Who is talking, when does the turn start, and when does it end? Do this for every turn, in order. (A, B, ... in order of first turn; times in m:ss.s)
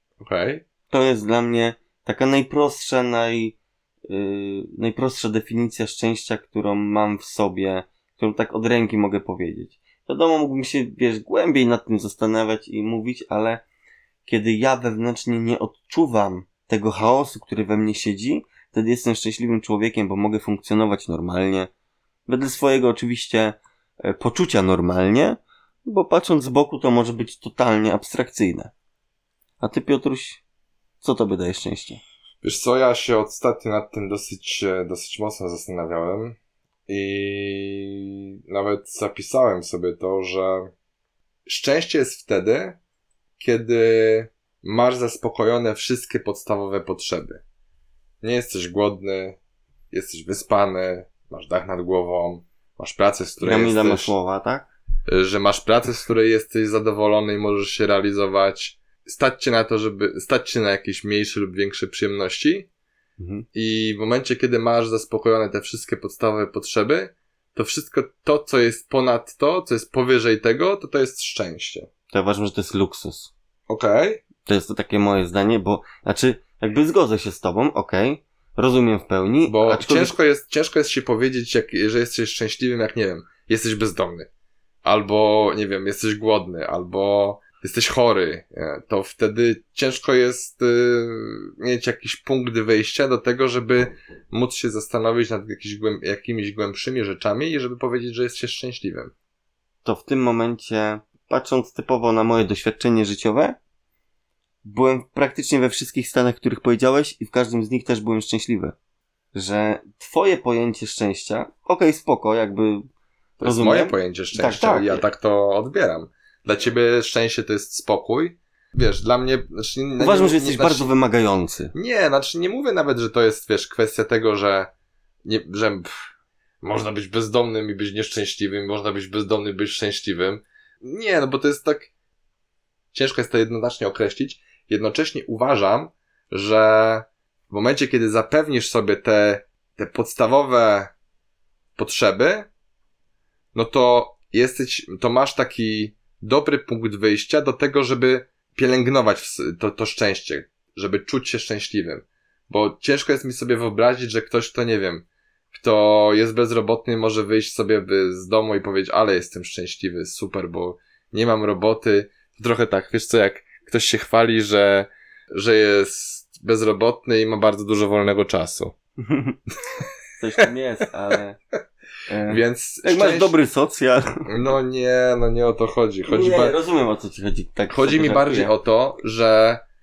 0:00.2-0:00.6 A
0:00.9-0:03.6 B
0:04.1-0:13.6 B
0:14.3-0:21.7 B
0:22.3-0:28.7 B
0:29.6-0:30.4 B
0:31.0-0:32.0 B
0:32.4-0:40.7 A
0:41.5-0:42.8 A
0:43.4-0:47.4 A
0:48.2-0:49.4 A
0:49.9-0:54.1 A
0:53.4-0:54.7 B
0:55.1-1:02.7 A
1:03.2-1:03.5 B
1:03.5-1:11.9 A
1:12.1-1:13.3 B
1:13.7-1:14.2 A
1:14.4-1:20.2 B
1:19.5-1:24.3 A
1:24.8-1:39.1 A
1:39.8-1:43.6 B
1:44.6-1:48.8 B
1:49.3-1:52.9 B
1:53.4-1:55.0 B
1:53.4-2:00.9 A
2:00.0-2:01.7 B
2:01.7-2:04.7 A
2:05.2-2:05.9 A
2:06.6-2:11.9 A
2:12.9-2:20.9 A
2:21.8-2:22.5 A
2:23.5-2:48.8 A
2:49.0-2:49.4 B
2:50.2-2:51.4 B
2:52.1-2:54.3 B
2:52.3-2:53.4 A
2:54.3-2:56.6 A
2:56.1-2:58.5 B
2:57.7-2:59.6 A